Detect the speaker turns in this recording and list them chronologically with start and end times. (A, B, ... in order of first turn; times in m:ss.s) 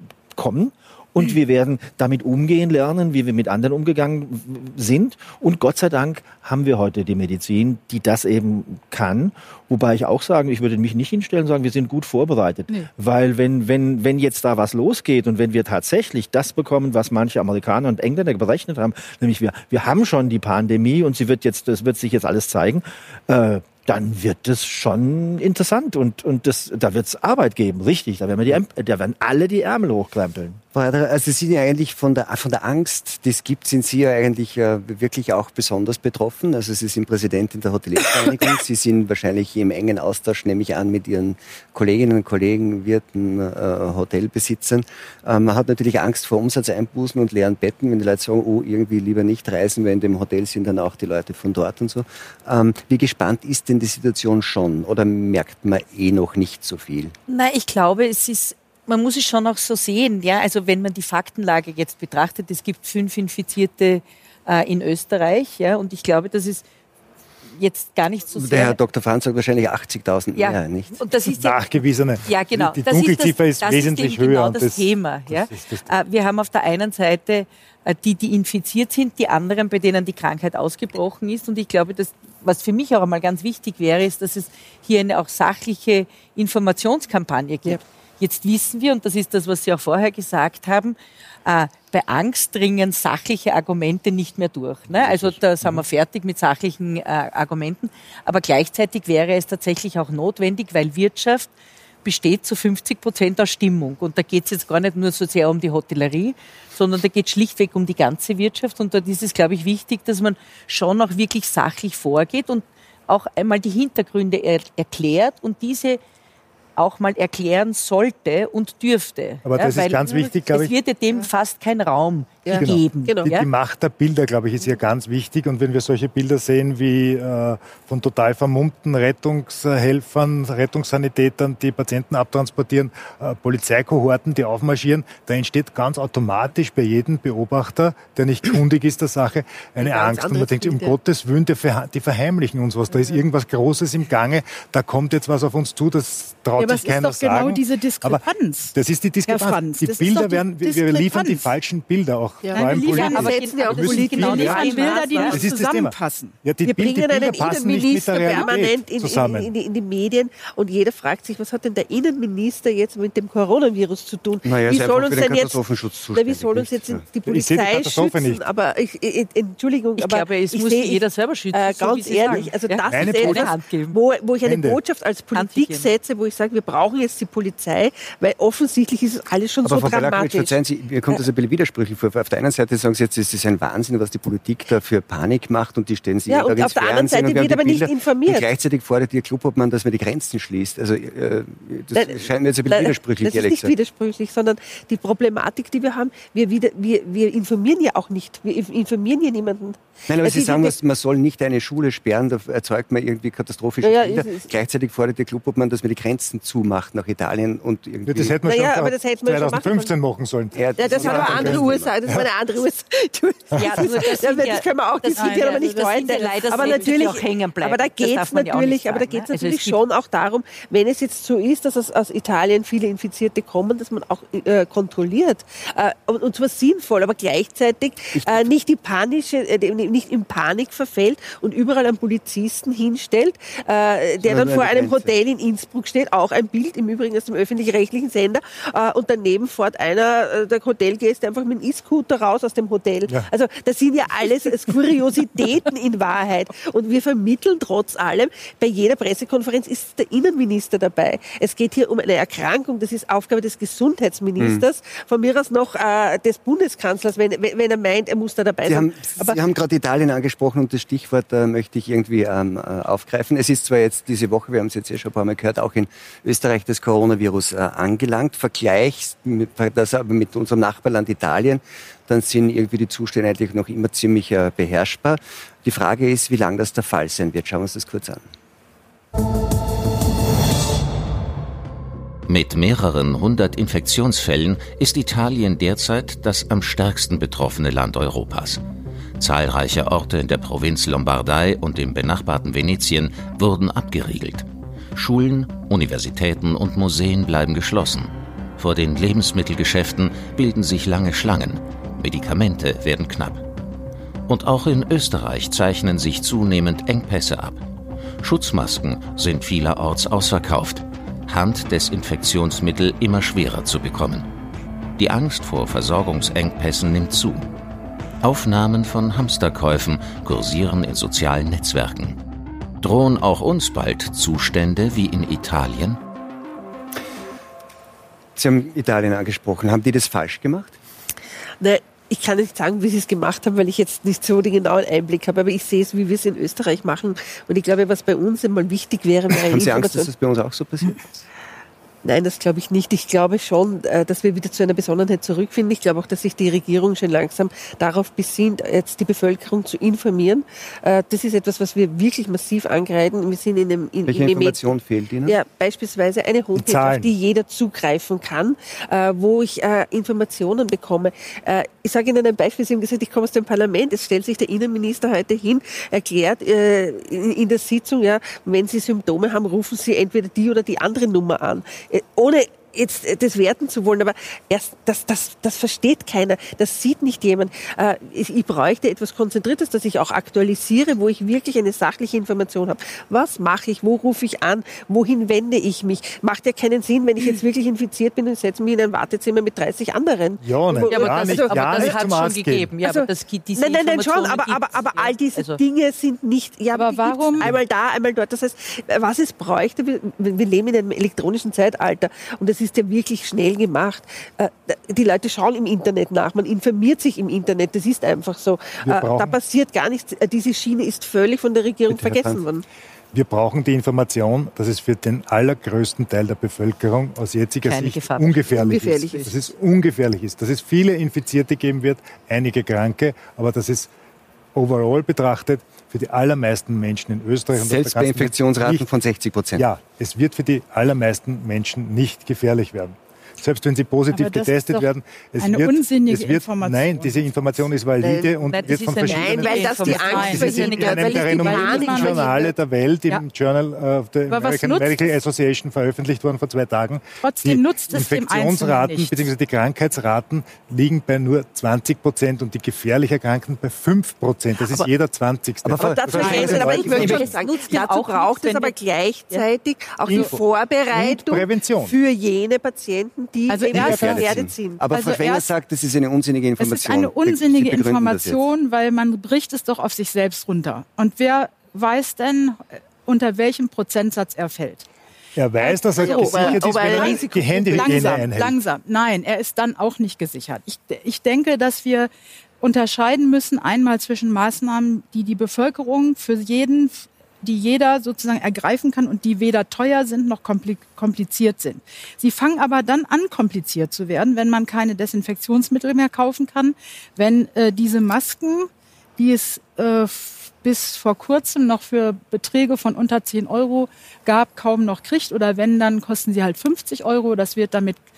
0:00.4-0:30.6 A
0:30.8-0:57.1 B
0:57.3-1:06.6 C
1:07.6-1:08.8 C
1:08.4-1:11.0 B
1:10.4-1:11.7 C
1:11.3-1:15.9 D
1:12.2-1:41.5 C
1:34.9-1:35.4 B
1:42.0-1:56.0 C
1:56.8-2:03.5 C
1:59.4-2:00.7 D
2:02.4-2:03.3 E
2:02.5-2:34.7 D
2:19.8-2:21.0 E
2:26.6-2:28.8 F
2:29.3-2:31.5 F
2:32.4-2:35.4 E
2:32.5-2:36.4 F
2:33.0-2:35.4 C
2:35.3-2:39.5 D
2:36.6-2:45.6 E
2:44.4-2:47.0 B
2:46.1-3:00.5 E
2:47.3-2:48.4 D
2:50.0-2:54.0 C
2:52.3-2:53.5 D
2:54.4-2:54.8 D
2:55.4-2:55.9 C
2:59.6-3:13.7 B
3:06.3-3:08.4 E
3:11.9-3:20.7 E
3:20.1-3:28.4 B
3:23.8-3:24.5 E
3:28.1-3:32.3 D
3:28.4-3:29.9 E
3:30.5-3:31.9 B
3:30.8-4:19.4 E
3:33.6-3:39.8 C
3:35.2-3:35.7 F
3:48.2-3:48.4 B
3:54.2-3:55.1 B
4:14.4-4:14.6 B
4:18.6-4:38.2 B
4:42.3-4:48.6 G
4:49.2-5:03.4 G
5:04.3-5:07.6 G
5:08.2-5:14.3 G
5:15.0-5:17.4 G
5:18.2-5:22.2 G
5:22.8-5:26.0 G
5:28.4-5:30.8 B
5:31.6-5:40.1 E
5:39.3-5:41.2 B
5:42.0-5:54.6 E
5:54.1-5:55.4 B
5:55.3-6:32.0 E
5:56.6-5:57.1 D
6:30.4-6:32.7 D
6:30.8-6:35.6 C
6:32.8-6:52.6 E
6:36.7-6:37.5 F
6:48.8-6:49.4 D
6:51.9-6:52.4 B
6:53.1-7:03.9 D
6:57.6-6:59.3 C
6:58.5-6:59.4 E
7:04.6-7:08.9 D
7:07.5-7:09.6 B
7:09.6-7:37.3 D
7:14.1-7:17.6 F
7:18.0-7:18.4 E
7:18.5-7:21.5 C
7:19.0-7:22.5 E
7:20.0-7:22.5 F
7:24.3-7:25.1 F
7:27.2-7:29.3 F
7:35.6-7:37.3 B
7:35.8-7:44.9 E
7:36.2-7:37.2 F
7:36.4-7:38.7 C
7:40.1-7:42.0 D
7:43.5-7:44.2 F
7:43.7-7:48.4 B
7:43.8-7:44.4 D
7:44.9-7:45.5 F
7:46.6-7:54.9 F
7:55.4-7:58.6 D
7:55.6-8:28.0 F
7:56.0-7:58.3 E